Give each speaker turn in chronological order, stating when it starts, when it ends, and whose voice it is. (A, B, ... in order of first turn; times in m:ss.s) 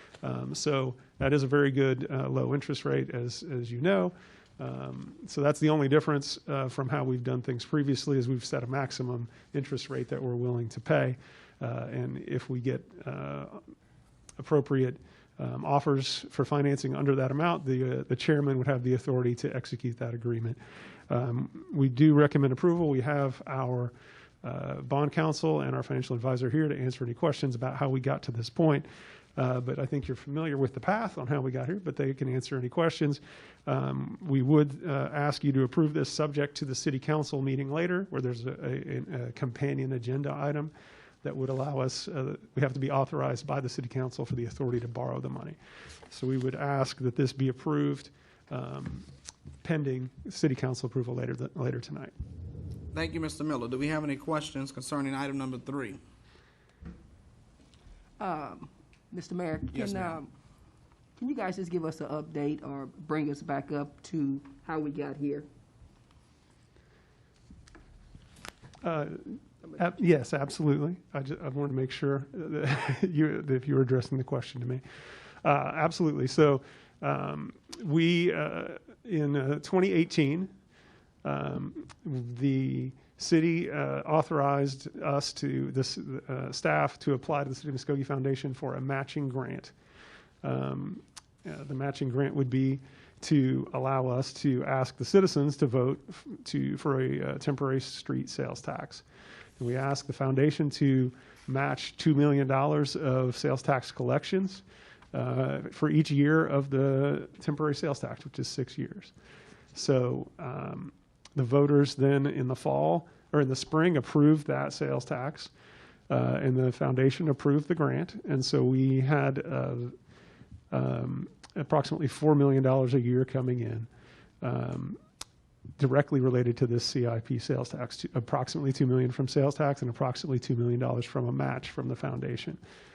0:00.2-0:13.6 A
0:14.4-0:20.6 A
0:21.1-0:45.6 A
0:46.1-0:49.1 A
0:49.6-0:52.1 A
0:52.9-0:56.0 B
0:58.2-1:00.3 C
0:59.7-1:00.2 B
1:01.2-1:05.5 C
1:08.8-1:14.8 A
1:15.4-1:20.5 A
1:21.2-1:29.7 A
1:30.4-1:39.0 A
1:39.6-1:49.1 A
1:49.7-1:55.5 A
1:56.1-2:00.0 A
2:00.7-2:03.9 A
2:04.4-2:05.0 A
2:05.8-2:12.6 A